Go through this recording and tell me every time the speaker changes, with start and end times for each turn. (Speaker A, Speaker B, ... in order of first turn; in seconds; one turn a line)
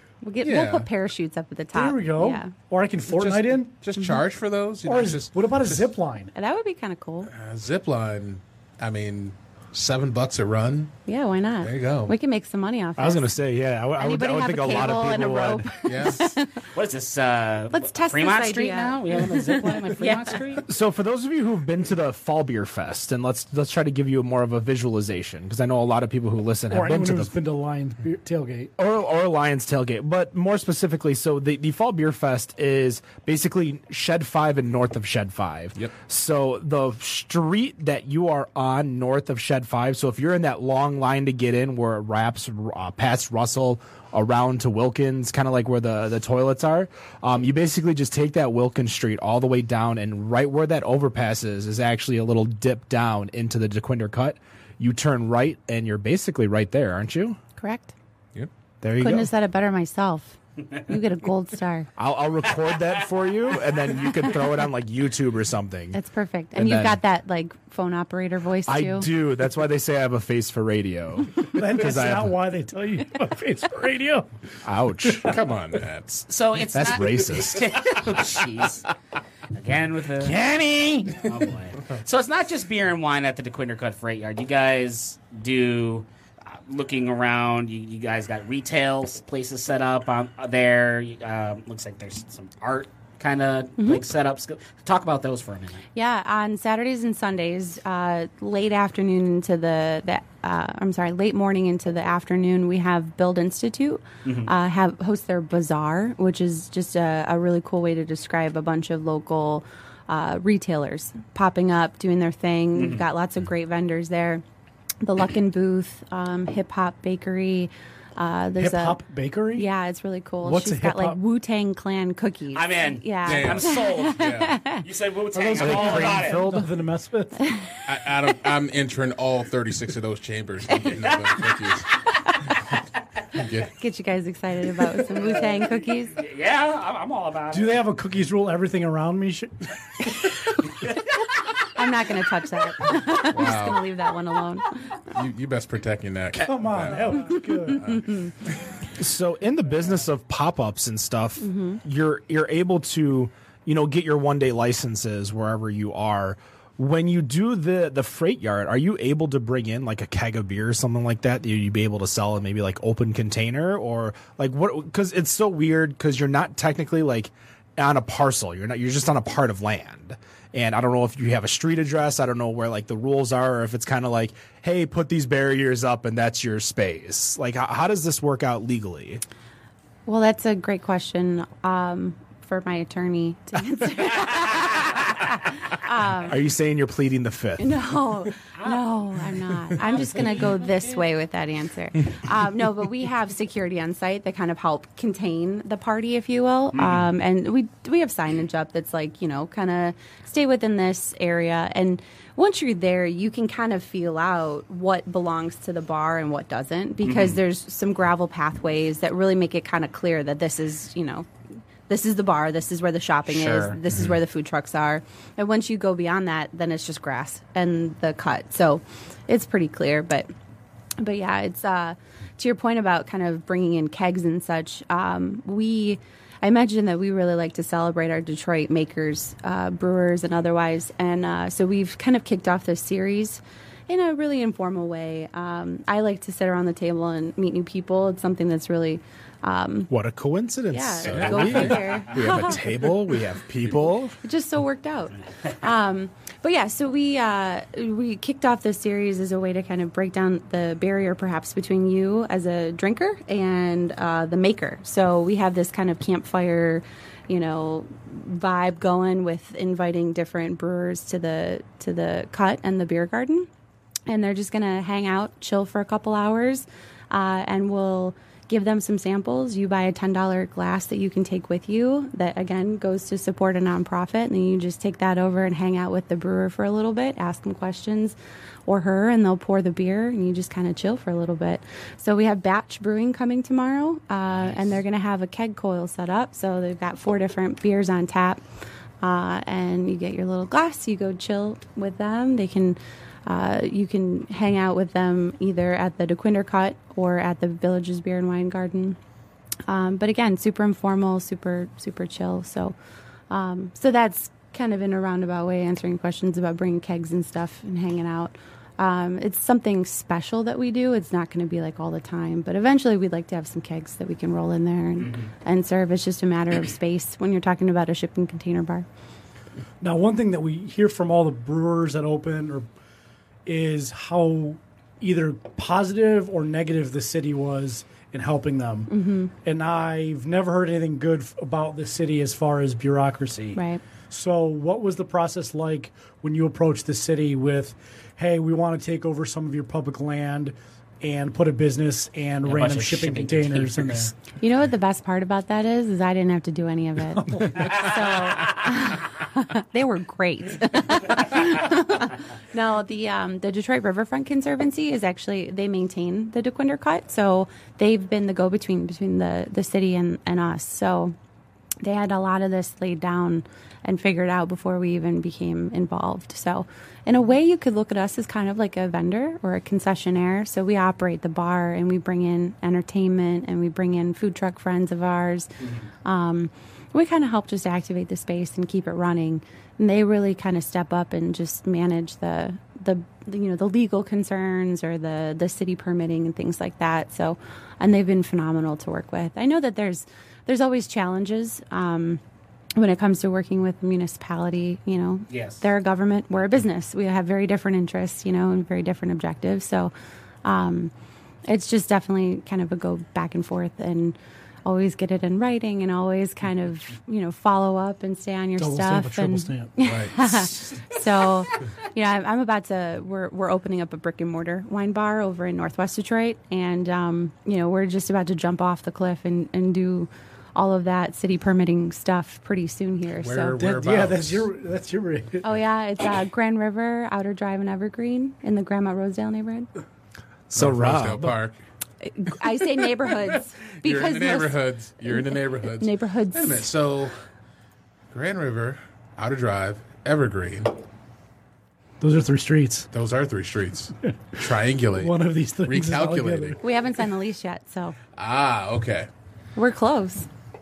Speaker A: 0.2-2.5
Speaker B: 0.4-0.9
Speaker C: 1.7-3.7
Speaker B: 3.0-5.9
Speaker C: 4.8-6.3
Speaker A: 6.3-7.3
Speaker B: 7.3-10.9
Speaker A: 11.1-13.3
Speaker B: 11.6-12.1
Speaker D: 13.0-15.7
Speaker A: 14.0-16.6
Speaker B: 15.8-16.3
Speaker E: 16.7-20.6
Speaker A: 17.7-20.4
Speaker D: 20.6-27.3
Speaker C: 26.7-28.7
Speaker D: 28.8-57.4
Speaker A: 57.6-57.9
Speaker D: 58.8-59.3
Speaker A: 59.0-61.9
Speaker D: 62.0-66.0
Speaker A: 65.9-69.1
Speaker D: 66.5-67.0
Speaker D: 68.7-72.3
Speaker C: 71.5-74.3
Speaker D: 74.6-75.3
Speaker B: 75.2-76.3
Speaker E: 76.3-78.9
Speaker D: 76.7-77.7
Speaker E: 79.5-80.4
Speaker C: 80.5-81.1
Speaker D: 80.5-81.1
Speaker E: 81.2-95.8
Speaker A: 95.9-114.4
Speaker E: 104.2-104.5
Speaker E: 112.7-113.0
Speaker A: 115.0-119.0
Speaker C: 118.6-119.7
Speaker A: 119.5-124.8
Speaker C: 120.4-121.2
Speaker E: 122.5-126.4
Speaker B: 123.2-124.6
Speaker C: 125.5-127.5
Speaker D: 125.6-126.7
Speaker B: 127.8-131.9
Speaker B: 133.3-133.7
Speaker A: 133.8-136.2
Speaker E: 135.2-137.8
Speaker C: 137.5-140.1
Speaker A: 141.5-144.7
Speaker B: 143.2-143.8
Speaker B: 145.1-148.1
Speaker C: 146.4-147.9
Speaker A: 147.9-148.2
Speaker D: 148.9-179.2
Speaker A: 151.4-151.8
Speaker A: 180.1-186.4
Speaker D: 186.2-187.7
Speaker A: 187.6-211.3
Speaker E: 189.8-191.0
Speaker E: 196.7-197.1
Speaker E: 207.0-207.3
Speaker A: 211.9-220.3
Speaker E: 213.3-213.8
Speaker A: 221.0-239.9
Speaker D: 239.9-244.1
Speaker A: 240.7-242.6
Speaker B: 241.1-241.7
Speaker A: 244.2-263.5
Speaker A: 264.1-278.1
Speaker A: 278.7-288.4
Speaker A: 289.0-299.0
Speaker A: 299.7-302.7
Speaker A: 303.3-318.9
Speaker C: 319.8-322.7
Speaker C: 323.4-328.9
Speaker A: 328.9-329.3
Speaker C: 329.4-333.6
Speaker A: 333.5-333.8
Speaker C: 334.1-344.1
Speaker E: 342.4-344.1
Speaker A: 344.4-361.1
Speaker C: 347.2-347.9
Speaker A: 361.8-392.2
Speaker A: 392.8-399.9
Speaker E: 395.3-395.6
Speaker A: 400.4-400.9
Speaker A: 401.4-423.5
Speaker C: 408.6-409.7
Speaker B: 409.8-410.5
Speaker B: 423.1-424.5
Speaker C: 423.5-425.4
Speaker A: 425.4-429.7
Speaker B: 430.5-431.6
Speaker D: 430.5-431.3
Speaker A: 432.1-436.7
Speaker B: 433.8-437.1
Speaker B: 438.1-440.8
Speaker C: 442.0-442.9
Speaker B: 442.9-446.6
Speaker C: 445.0-446.6
Speaker A: 446.6-447.9
Speaker B: 448.1-449.1
Speaker A: 449.6-450.3